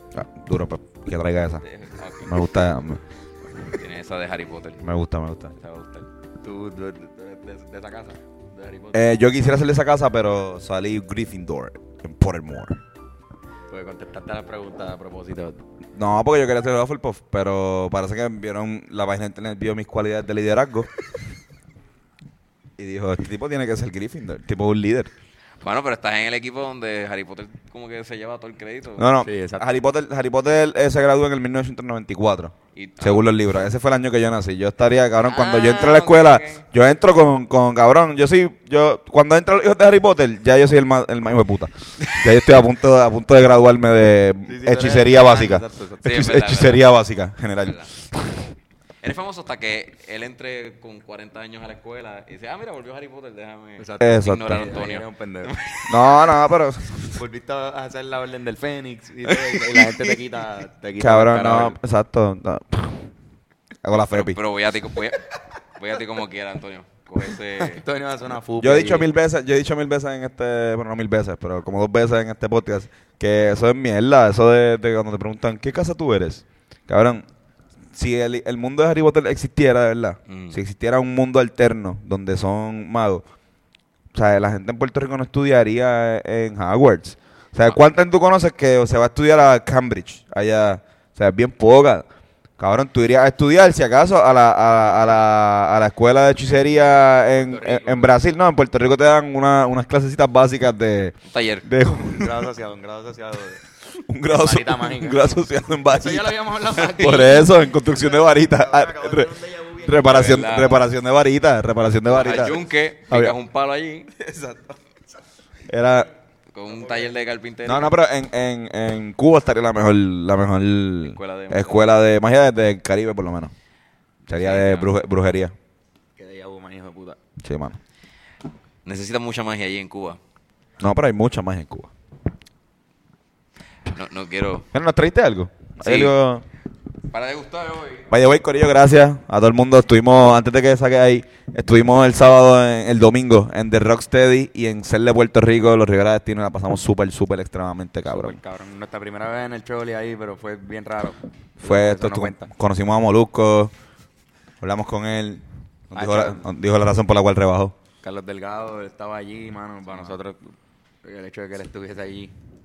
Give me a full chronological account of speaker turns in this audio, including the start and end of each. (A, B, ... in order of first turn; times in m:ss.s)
0:00.1-0:01.6 A
0:01.6-0:02.3 B
0:02.2-0:03.0 A
0:03.7-0:04.8 B
0:04.8-0:05.5 A
0:05.6-0:06.1 B
0:06.4-0:09.1 C
0:08.9-0:12.8 A
0:13.7-0:15.6 C
0:16.0-0:20.9 A
0:22.8-0:25.1 A
0:25.6-0:29.1 B
0:29.0-0:47.9 A
0:29.2-0:29.7 C
0:32.8-0:33.4 B
0:35.3-0:36.6 B
0:44.5-0:46.1 C
0:46.0-0:46.8 B
0:47.6-0:47.9 B
0:49.0-0:56.3 B
0:53.8-0:55.5 C
0:54.0-0:54.7 A
0:55.9-0:56.9 A
0:57.2-1:01.8 C
1:01.0-1:03.1 A
1:03.8-1:04.4 A
1:04.1-1:07.8 B
1:07.6-1:09.1 C
1:08.6-1:17.2 A
1:17.9-1:23.2 A
1:20.3-1:20.6 B
1:24.1-1:32.1 A
1:32.6-1:42.5 A
1:37.4-1:38.2 C
1:41.3-1:41.7 B
1:42.1-1:43.6 C
1:43.9-1:46.3 A
1:44.3-1:45.2 C
1:45.9-1:50.7 C
1:46.9-1:49.3 A
1:49.8-1:53.4 A
1:50.1-1:50.8 B
1:52.1-1:54.1 B
1:54.2-1:54.8 C
1:55.7-1:56.1 A
1:56.5-1:57.9 B
1:56.6-1:57.2 C
1:57.6-2:03.5 A
2:01.0-2:01.9 B
2:04.3-2:05.6 A
2:04.4-2:04.9 B
2:06.2-2:07.2 C
2:07.4-2:07.8 A
2:08.8-2:10.2 B
2:10.8-2:11.9 A
2:13.9-2:14.7 B
2:14.7-2:16.4 A
2:15.8-2:16.2 B
2:17.1-2:18.1 B
2:18.1-2:28.4 A
2:28.0-2:32.5 C
2:31.6-2:33.7 A
2:34.6-2:37.8 A
2:36.0-2:36.5 C
2:38.0-2:42.3 C